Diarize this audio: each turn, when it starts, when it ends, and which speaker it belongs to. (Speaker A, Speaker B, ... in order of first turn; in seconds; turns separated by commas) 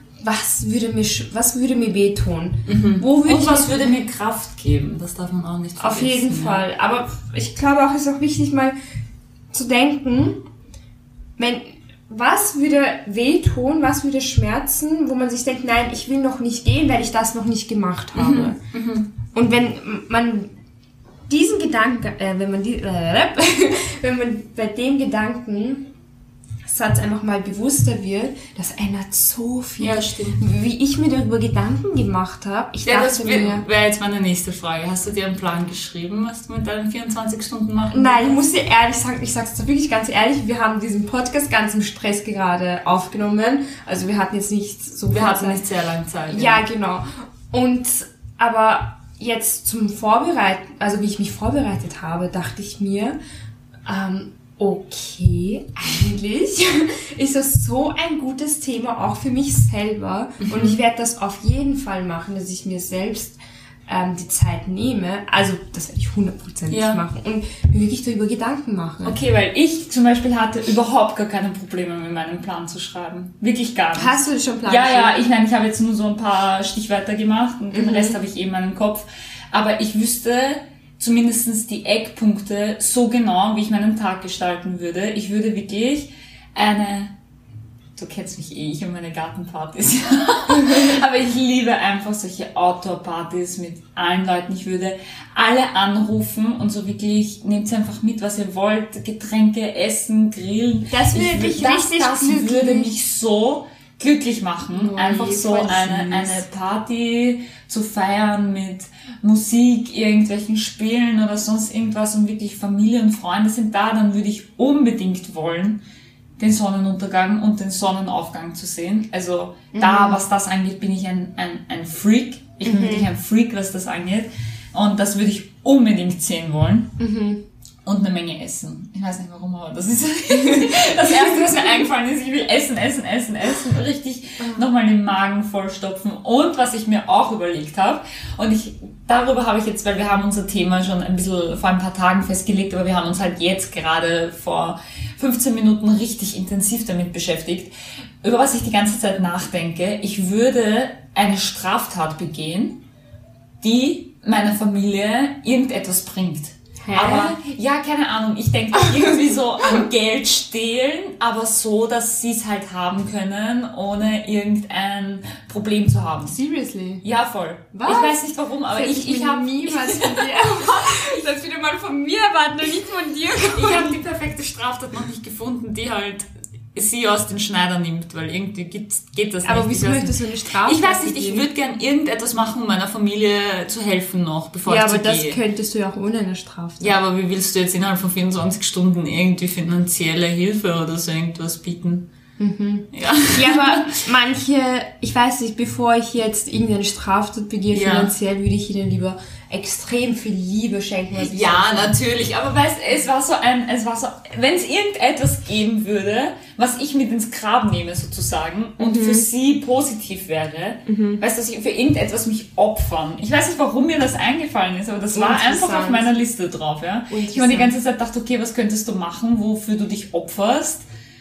Speaker A: 0.2-3.9, Speaker B: 2.6-6.6, Speaker A: 5.8-8.7, Speaker A: 9.5-10.4, Speaker A: 11.4-18.6, Speaker B: 18.1-19.1, Speaker A: 19.3-20.5, Speaker A: 21.3-25.8, Speaker A: 26.6-33.6, Speaker B: 29.8-30.4, Speaker B: 32.8-38.4, Speaker A: 37.9-45.6, Speaker B: 45.1-46.6, Speaker A: 46.3-53.2, Speaker A: 53.9-69.2, Speaker B: 60.5-60.8, Speaker B: 66.7-67.0, Speaker B: 69.0-74.1, Speaker A: 73.9-75.2, Speaker B: 74.7-87.1, Speaker A: 77.7-78.2, Speaker B: 88.0-115.8, Speaker A: 100.9-102.9, Speaker A: 104.7-106.4, Speaker B: 116.4-126.9, Speaker A: 119.7-120.2, Speaker A: 122.6-123.1, Speaker A: 127.0-127.4, Speaker B: 127.8-152.8, Speaker B: 153.6-166.4, Speaker A: 156.8-157.3, Speaker A: 166.3-167.0, Speaker B: 167.0-171.2, Speaker A: 167.7-174.0, Speaker B: 173.5-185.4, Speaker A: 179.4-181.5, Speaker A: 184.7-186.9, Speaker B: 186.8-192.1, Speaker A: 192.4-202.0, Speaker B: 192.9-193.9, Speaker B: 197.7-198.1, Speaker B: 201.2-220.8, Speaker A: 208.8-209.2, Speaker A: 210.8-211.2, Speaker A: 215.1-216.1, Speaker A: 217.1-217.7